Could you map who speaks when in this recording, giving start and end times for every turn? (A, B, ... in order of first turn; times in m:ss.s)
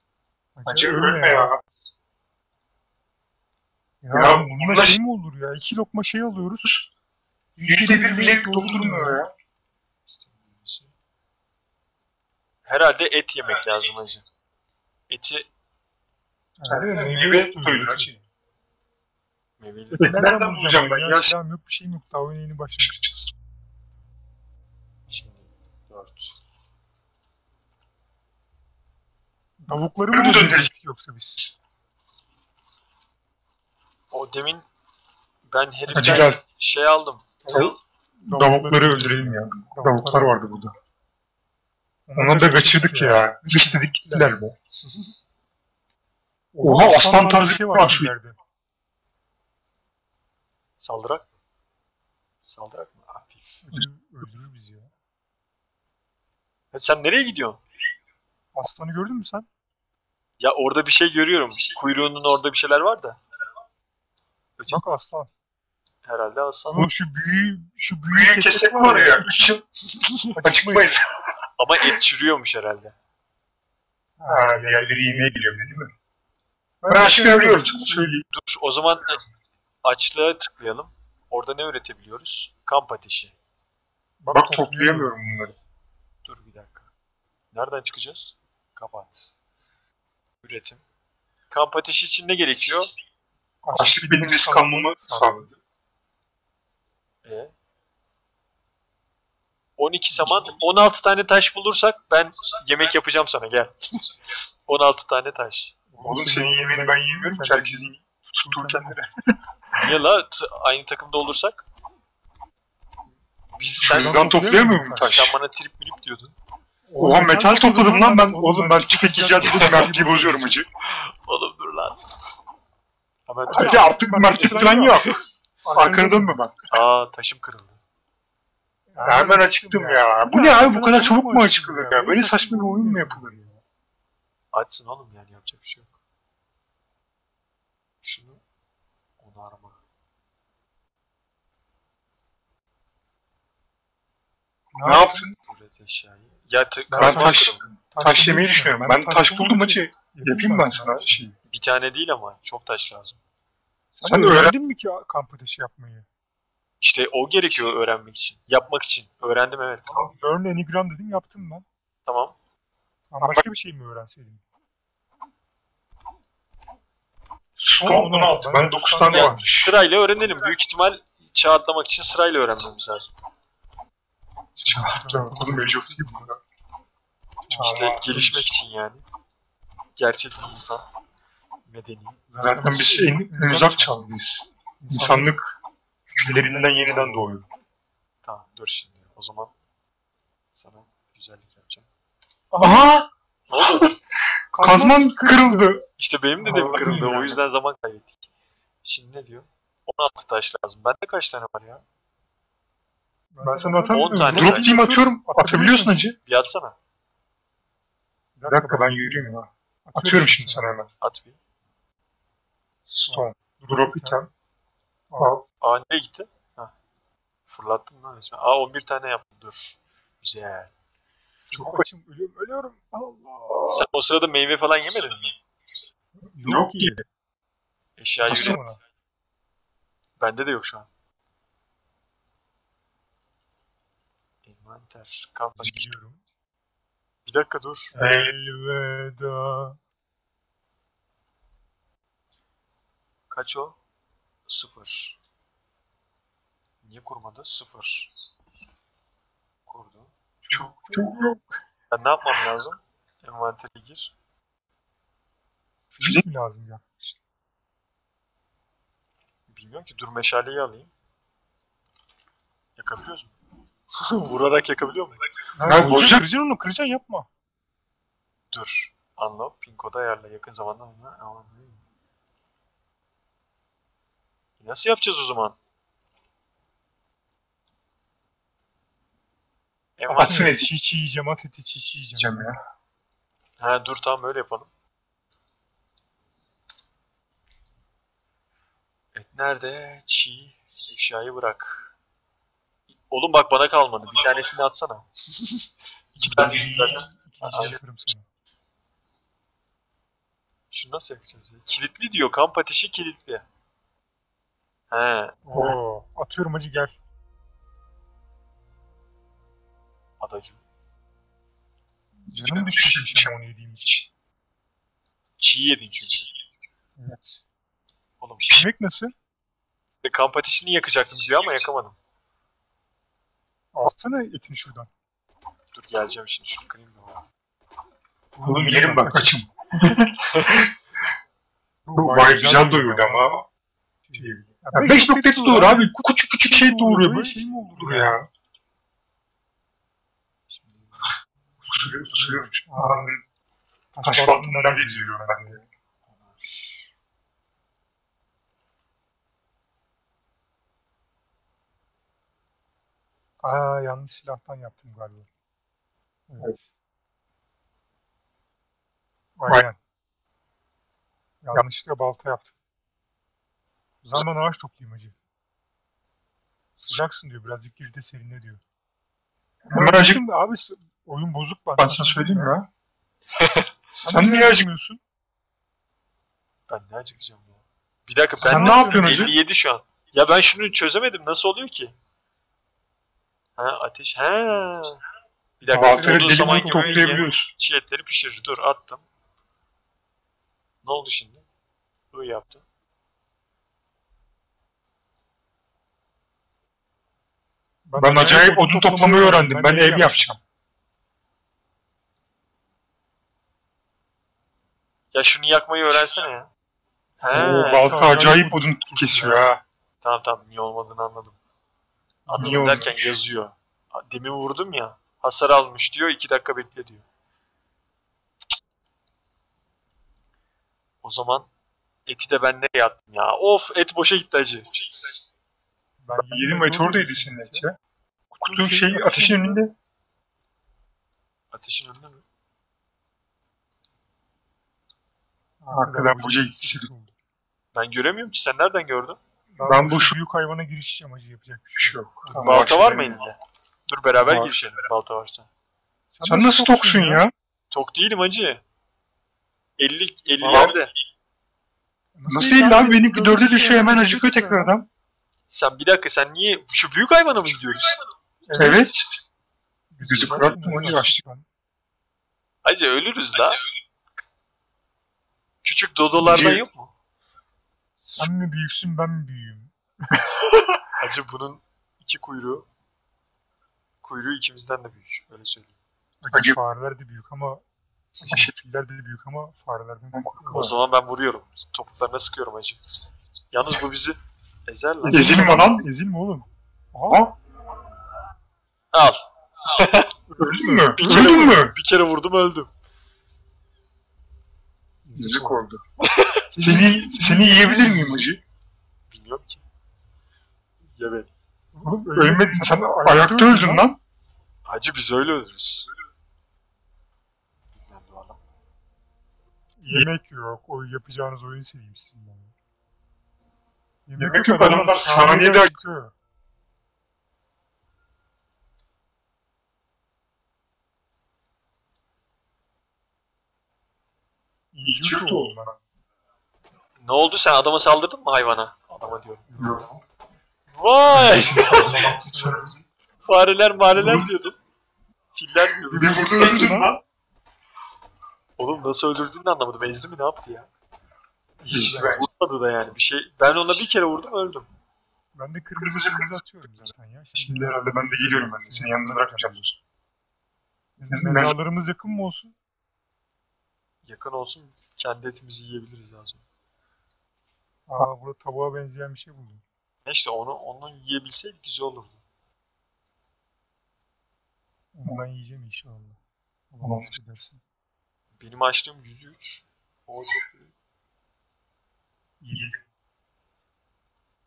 0:00.6-0:01.5 A
0:00.6-0:01.6 B
0:04.0-0:06.8 A
0:04.1-0:05.0 B
0:07.6-0:09.2 A
0:07.6-0:09.3 B
0:10.1-0:10.9 C
0:12.6-0:14.2 C
0:15.1-0:15.5 C
0:16.6-0:18.1 A
0:16.7-0:18.2 B
0:19.6-0:20.3 C
0:19.9-0:23.0 A
0:20.0-0:21.3 B
0:22.8-0:23.3 B
0:25.1-0:26.3 C
0:29.6-0:31.5 A
0:30.1-0:30.7 B
0:34.1-0:34.6 C
0:35.5-0:37.3 C
0:35.9-0:36.4 B
0:36.0-0:36.2 A
0:37.4-0:37.7 A
0:37.5-0:37.7 B
0:38.2-0:40.4 A
0:38.3-0:40.7 B
0:42.1-0:44.4 A
0:42.2-0:44.5 B
0:46.5-0:48.4 A
0:46.6-0:48.1 B
0:50.8-0:51.3 C
0:52.4-0:53.6 C
0:53.7-0:54.9 A
0:56.7-0:57.6 C
0:58.5-0:59.5 A
1:00.4-1:03.2 C
1:04.7-1:05.3 A
1:06.0-1:06.9 C
1:06.7-1:09.6 A
1:08.1-1:09.6 B
1:09.9-1:10.3 C
1:10.3-1:10.9 A
1:10.4-1:11.0 B
1:11.6-1:12.9 C
1:14.2-1:14.7 A
1:14.2-1:15.9 B
1:16.8-1:18.2 A
1:16.9-1:18.2 B
1:18.3-1:19.2 C
1:19.8-1:23.3 C
1:24.2-1:25.1 A
1:24.3-1:25.5 B
1:26.2-1:26.9 C
1:27.5-1:29.3 C
1:30.4-1:30.8 C
1:31.5-1:32.9 C
1:33.6-1:35.5 A
1:33.7-1:35.5 B
1:37.2-1:37.5 C
1:39.8-1:44.0 C
1:44.7-1:45.7 C
1:45.9-1:49.0 A
1:46.0-1:49.1 B
1:49.7-1:51.6 C
1:53.6-1:54.3 C
1:53.8-1:55.4 B
1:53.8-1:55.3 A
1:55.0-1:56.3 C
1:56.9-2:00.5 A
1:57.0-2:00.6 B
2:00.8-2:02.0 C
2:03.3-2:03.9 C
2:03.5-2:05.1 A
2:03.5-2:05.1 B
2:05.6-2:06.4 A
2:05.7-2:06.5 B
2:06.7-2:07.8 C
2:08.9-2:13.6 A
2:09.0-2:13.4 B
2:14.5-2:15.9 C
2:18.0-2:18.4 C
2:19.2-2:19.8 C
2:24.7-2:25.3 A
2:24.8-2:25.3 B
2:25.5-2:27.7 C
2:26.9-2:31.3 A
2:26.9-2:31.3 B
2:31.5-2:33.2 C
2:33.9-2:36.1 A
2:34.0-2:34.5 B
2:36.8-2:39.9 C
2:39.9-2:41.6 A
2:42.0-2:42.3 C
2:43.1-2:44.4 A
2:43.2-2:43.4 B
2:47.6-2:49.8 B
2:47.6-2:49.5 A
2:49.1-2:53.1 C
2:54.6-2:56.3 A
2:54.6-2:56.4 B
2:57.5-2:58.4 A
2:57.5-2:58.4 B
2:57.6-2:59.0 C
3:00.0-3:00.9 C
3:01.7-3:02.2 C
3:02.3-3:04.0 A
3:02.4-3:05.5 B
3:04.8-3:05.3 A
3:06.1-3:07.3 A
3:06.1-3:07.4 B
3:08.2-3:09.5 C
3:10.5-3:11.9 C
3:12.5-3:12.9 A
3:12.6-3:13.9 B
3:13.5-3:14.0 C
3:14.5-3:15.7 A
3:14.6-3:15.8 B
3:16.0-3:18.2 C
3:16.4-3:17.4 A
3:16.4-3:17.2 B
3:18.8-3:21.8 C
3:23.3-3:26.0 A
3:23.4-3:26.2 B
3:23.9-3:24.7 C
3:26.2-3:26.7 C
3:28.4-3:29.3 A
3:28.5-3:30.9 B
3:29.8-3:30.8 A
3:31.0-3:31.4 C
3:32.9-3:34.3 B
3:33.1-3:34.2 A
3:35.1-3:35.4 A
3:35.2-3:35.4 B
3:35.6-3:36.7 C
3:37.5-3:40.7 C
3:41.5-3:43.7 A
3:41.6-3:41.8 B
3:43.7-3:45.3 C
3:46.3-3:47.0 A
3:46.4-3:46.9 B
3:48.0-3:48.6 C
3:48.2-3:48.8 A
3:48.3-3:48.6 B
3:50.2-3:50.9 C
3:54.4-3:55.9 C
3:55.6-3:56.2 A
3:57.2-3:57.9 C
3:57.9-3:58.3 B
3:58.0-3:59.8 A
4:03.3-4:03.8 C
4:04.5-4:05.2 C
4:06.8-4:08.1 C
4:09.7-4:10.1 C
4:10.4-4:11.3 A
4:10.5-4:11.4 B
4:11.9-4:14.1 C
4:15.9-4:17.1 A
4:19.5-4:20.9 C
4:22.8-4:23.3 C
4:24.0-4:25.2 C
4:25.5-4:27.3 A
4:25.6-4:26.3 B
4:28.5-4:31.8 C
4:34.6-4:35.6 C
4:40.0-4:40.5 C
4:40.1-4:42.5 A
4:40.2-4:40.7 B
4:42.2-4:42.6 B
4:43.6-4:44.7 C
4:49.1-4:51.9 C
4:53.1-4:57.8 C
4:56.2-4:57.8 B
4:56.2-4:58.2 A
5:00.7-5:03.4 C
5:04.9-5:05.4 C
5:05.4-5:07.0 A
5:10.2-5:10.6 C
5:12.3-5:14.0 A
5:12.3-5:13.4 B
5:15.4-5:16.3 C
5:17.0-5:17.4 A
5:18.2-5:18.6 C
5:18.5-5:19.1 A
5:20.0-5:22.0 C
5:23.7-5:24.9 A
5:25.7-5:27.2 C
5:28.3-5:29.4 A
5:28.4-5:30.7 B
5:30.3-5:30.7 C
5:31.8-5:33.2 A
5:32.0-5:33.4 B
5:34.1-5:38.2 A
5:34.1-5:38.2 B
5:40.5-5:41.2 C
5:41.7-5:43.2 B
5:42.7-5:43.1 A
5:43.9-5:45.6 A
5:44.0-5:45.6 B
5:46.1-5:46.7 C
5:53.4-5:55.3 A
5:56.3-5:56.7 A
5:59.4-5:59.8 A
6:01.4-6:02.5 A
6:04.0-6:05.1 A
6:06.8-6:08.6 A
6:09.6-6:10.2 B
6:09.7-6:12.5 A
6:11.8-6:12.7 B
6:13.4-6:13.7 C
6:14.0-6:15.0 A
6:14.1-6:14.7 B
6:16.7-6:21.9 C
6:18.4-6:19.3 B
6:18.4-6:19.3 A
6:23.6-6:25.0 C
6:25.6-6:29.0 C
6:25.7-6:27.5 B
6:25.7-6:27.3 A
6:30.8-6:31.4 C
6:32.1-6:32.6 C
6:37.8-6:40.4 A
6:38.0-6:40.4 B
6:45.1-6:46.5 C
6:47.2-6:47.9 C
6:47.3-6:49.6 B
6:47.3-6:49.4 A
6:50.0-6:51.4 C
6:52.3-6:52.7 A
6:52.3-6:57.0 C
6:52.3-6:53.2 B
7:01.0-7:01.5 C
7:02.0-7:04.7 C
7:06.0-7:07.6 A
7:06.2-7:07.8 B
7:08.3-7:09.6 A
7:08.4-7:09.7 B
7:11.5-7:12.2 C
7:15.6-7:17.1 A
7:15.7-7:16.9 B
7:17.7-7:19.2 C
7:19.5-7:22.5 A
7:19.6-7:20.1 B
7:21.8-7:23.2 B
7:22.3-7:25.5 C
7:24.2-7:24.5 B
7:26.1-7:27.2 A
7:26.2-7:27.3 B
7:27.7-7:28.6 C
7:29.8-7:30.9 C
7:30.4-7:30.7 B
7:32.2-7:34.7 A
7:32.3-7:34.9 B
7:35.5-7:38.0 C
7:38.4-7:38.9 A
7:38.6-7:39.0 B
7:39.9-7:41.4 A
7:40.0-7:41.2 B
7:40.2-7:40.5 C
7:42.6-7:43.6 C
7:45.6-7:46.9 C
7:46.2-7:46.6 B
7:48.0-7:48.3 B
7:48.1-7:50.2 A
7:50.9-7:52.6 C
7:54.0-7:55.7 C
7:56.2-7:57.6 A
7:56.3-7:56.6 B
7:58.2-8:00.7 A
7:58.3-7:58.5 B
8:00.1-8:00.7 B
8:00.5-8:02.8 C
8:03.5-8:05.6 C
8:05.0-8:07.3 A
8:05.0-8:05.9 B
8:07.1-8:07.3 B
8:08.9-8:10.1 C
8:10.3-8:11.6 A
8:10.4-8:11.7 B
8:11.0-8:12.7 C
8:15.0-8:15.6 A
8:15.1-8:15.8 B
8:16.0-8:16.4 C
8:16.5-8:18.2 A
8:16.6-8:18.4 B
8:19.1-8:19.6 C
8:20.9-8:21.3 C
8:21.7-8:23.8 A
8:22.1-8:24.0 B
8:24.6-8:25.9 C
8:27.7-8:28.4 C
8:29.8-8:32.5 A
8:34.1-8:36.1 A
8:34.2-8:35.7 B
8:44.7-8:45.7 A
8:44.9-8:45.6 B
8:47.0-8:49.4 C
8:49.5-8:49.8 A
8:49.6-8:50.0 B
8:50.7-8:52.0 C
8:51.1-8:52.8 B
8:51.5-8:52.8 A
8:53.2-8:54.6 C
8:53.9-8:54.3 B
8:55.3-8:56.5 C
8:55.9-8:57.0 B
8:56.1-8:57.0 A
8:58.6-9:00.7 C
9:01.6-9:04.7 C
9:01.7-9:02.2 B
9:05.3-9:09.5 A
9:05.8-9:06.3 B
9:07.4-9:09.8 B
9:11.0-9:12.5 A
9:11.1-9:11.5 B
9:14.0-9:16.4 C
9:17.9-9:19.6 A
9:20.0-9:22.2 C
9:24.9-9:26.2 A
9:26.7-9:27.6 A
9:26.8-9:27.2 B
9:28.4-9:30.7 C
9:32.4-9:32.8 A